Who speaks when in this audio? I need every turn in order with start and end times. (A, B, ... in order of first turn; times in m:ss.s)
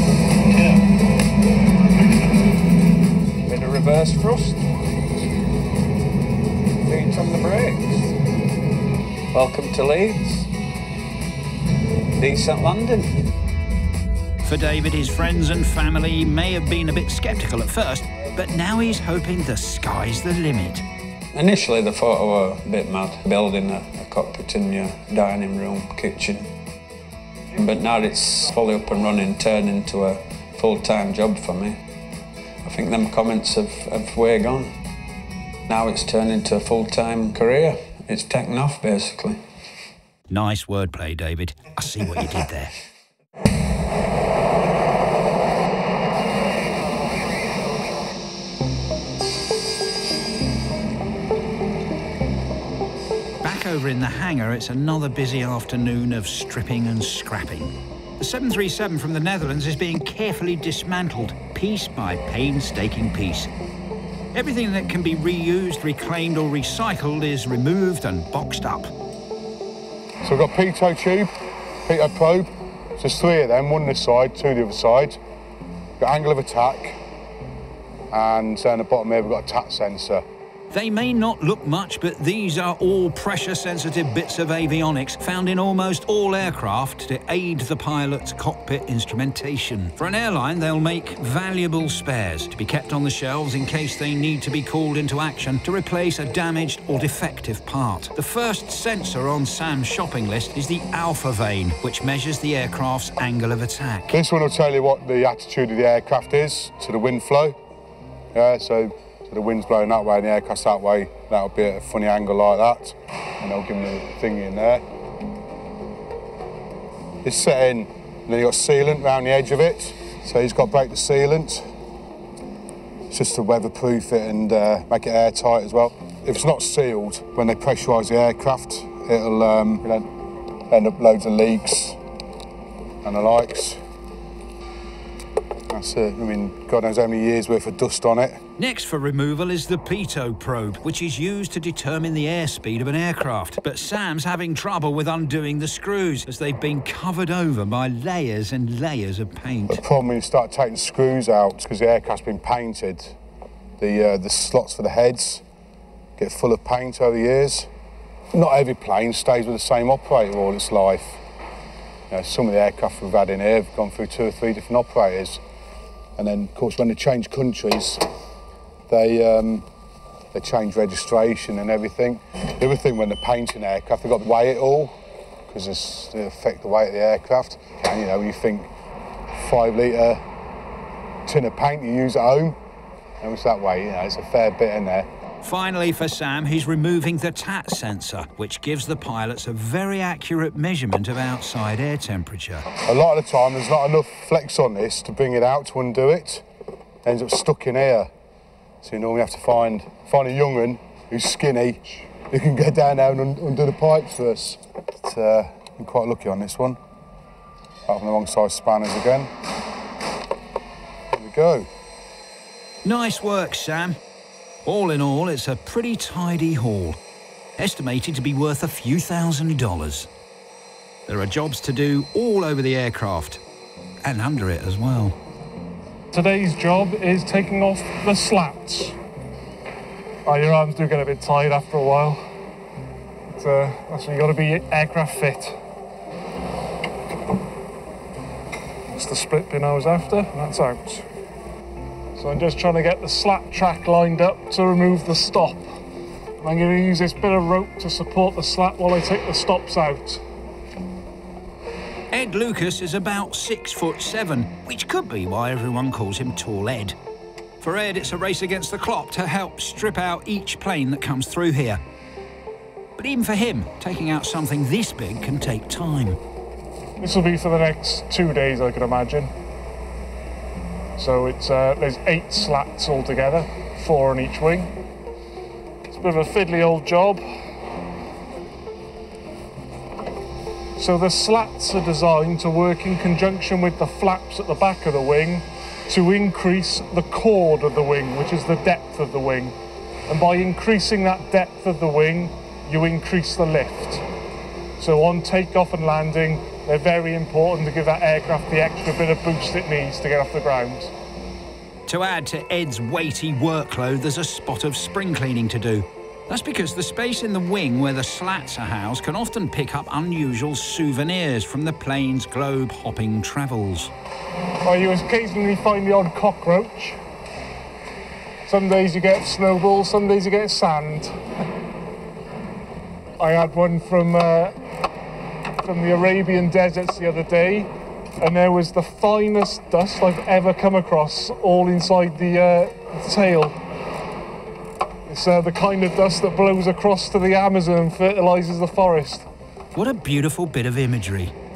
0:00.5-0:00.8 A
0:03.4-0:04.6 A
0:06.8-0:08.0 A
0:09.3-0:10.5 A
0:12.2-0:13.1 A
0:14.4-0:20.8 B
0:21.3-0:26.5 A
0:27.5-0:31.8 A
0:32.6-0:34.7 A
0:35.7-0:39.4 A
0:40.3-0:42.7 B
0:53.4-1:03.5 B
1:04.3-1:08.9 B
1:10.2-1:11.3 C
1:11.8-1:15.2 C
1:16.0-1:17.0 C
1:18.1-1:20.2 C
1:20.7-1:44.2 B
1:44.1-1:47.6 C
1:48.3-1:54.8 C
1:57.2-2:01.6 C
2:03.1-2:10.0 C
2:10.7-2:12.0 C
2:13.0-2:13.8 C
2:15.7-2:18.4 C
2:18.6-2:29.8 B
2:29.7-2:33.2 C
2:33.8-2:35.4 C
2:36.2-2:37.7 C
2:38.3-2:41.2 C
2:42.1-2:45.4 C
2:46.2-2:48.0 C
2:48.9-2:49.7 C
2:50.3-2:58.7 C
2:59.3-3:00.2 C
3:01.2-3:02.6 C
3:03.2-3:05.1 C
3:05.4-3:12.7 B
3:12.8-3:16.4 C
3:17.0-3:18.1 C
3:18.8-3:26.8 C
3:27.9-3:29.3 C
3:31.1-3:31.7 C
3:32.8-3:34.0 B
3:34.6-3:37.0 B
3:37.6-3:40.1 B
3:41.1-3:43.4 B
3:44.0-3:45.2 B
3:46.1-3:49.0 D
3:50.2-3:52.2 D
3:53.3-3:55.6 D
3:58.9-4:01.0 D
4:02.2-4:05.7 D
4:06.4-4:10.2 D
4:12.1-4:17.0 B
4:17.6-4:21.8 B
4:23.0-4:26.2 B
4:27.0-4:29.3 D
4:31.0-4:34.7 D
4:35.9-4:37.2 D
4:40.8-4:49.5 D
4:50.1-4:54.0 D
4:54.8-5:00.9 D
5:01.9-5:13.9 B
5:14.6-5:17.0 D
5:18.4-5:21.1 D
5:23.2-5:24.5 D
5:25.6-5:33.6 D
5:35.0-5:39.3 D
5:39.7-5:41.3 B